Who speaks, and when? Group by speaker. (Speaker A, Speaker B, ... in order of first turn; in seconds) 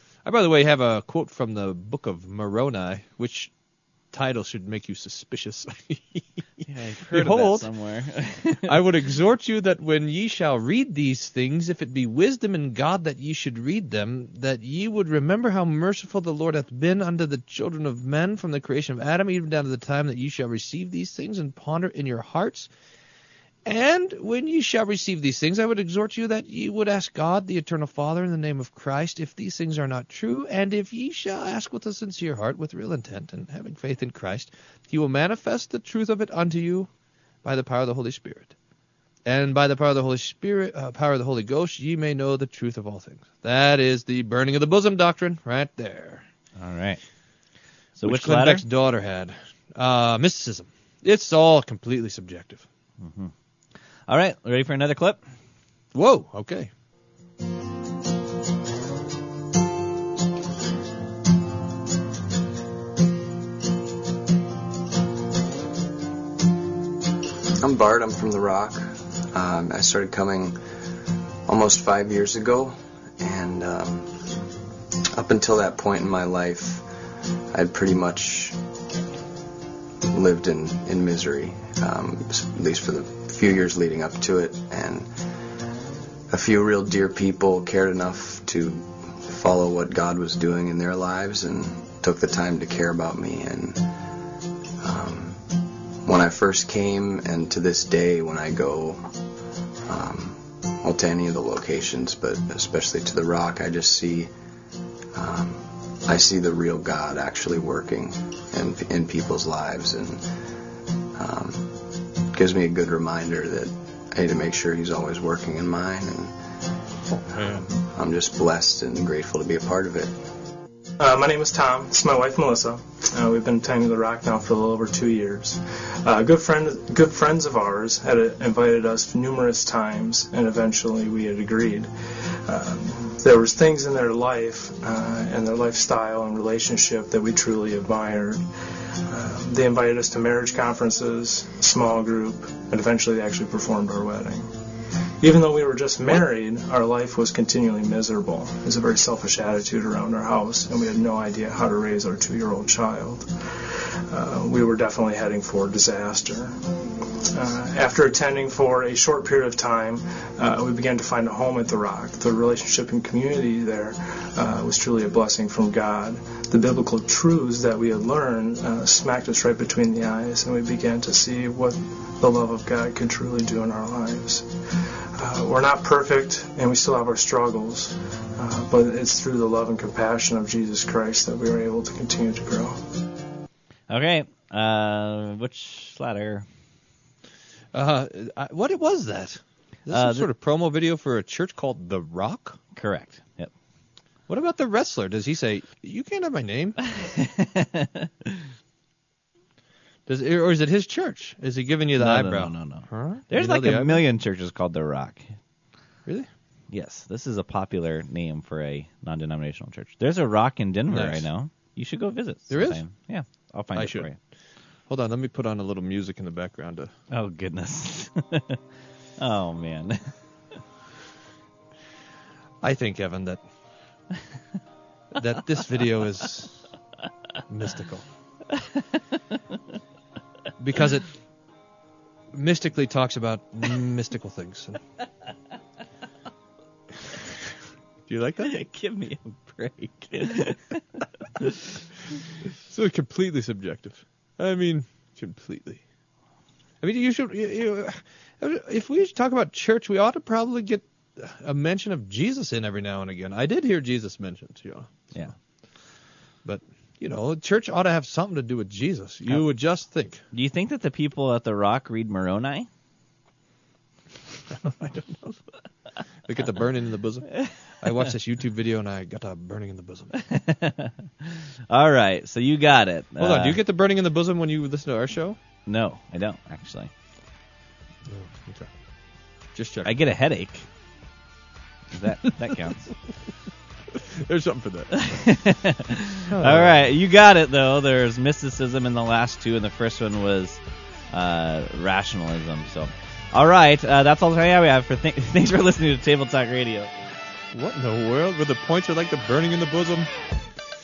Speaker A: 0.3-3.5, 4.1-7.7, 8.7-22.7, 23.7-36.9, 37.4-38.5, 39.3-46.2, 48.0-52.7, 55.9-56.7, 187.7-192.6, 194.3-196.8, 200.1-204.0, 210.9-211.2, 212.5-212.8, 213.8-214.1, 214.9-216.9, 222.6-223.4, 225.2-226.7, 227.5-228.1, 230.6-231.1, 232.3-234.8, 238.1-238.6, 242.7-245.8, 246.8-255.3, 256.4-260.2, 264.6-265.4, 266.3-270.1, 273.2-275.4, 278.1-278.7, 279.6-279.9, 284.2-285.0, 286.3-286.8, 297.5-300.1
Speaker B: 6.7-8.9, 46.6-47.0, 48.0-48.6, 53.0-53.3, 54.1-55.2, 183.9-186.5, 189.9-190.3, 192.8-193.5, 197.0-198.4, 202.0-205.3, 206.7-214.2, 217.1-218.6, 219.2-220.1, 238.4-241.6, 260.3-262.7, 270.2-273.6, 275.7-276.9, 279.9-280.6, 281.9-282.9, 285.0-290.6, 291.1-296.9
Speaker C: 67.6-70.6, 71.5-74.2, 75.1-76.8, 77.5-78.6, 80.1-85.1, 86.3-93.8, 94.8-95.5, 96.0-99.0, 99.9-104.3, 105.1-110.2, 111.2-116.3, 117.3-120.2
Speaker D: 121.0-131.9, 132.5-138.4, 139.1-144.5, 145.2-153.3, 154.1-156.5, 157.3-174.5, 175.2-182.8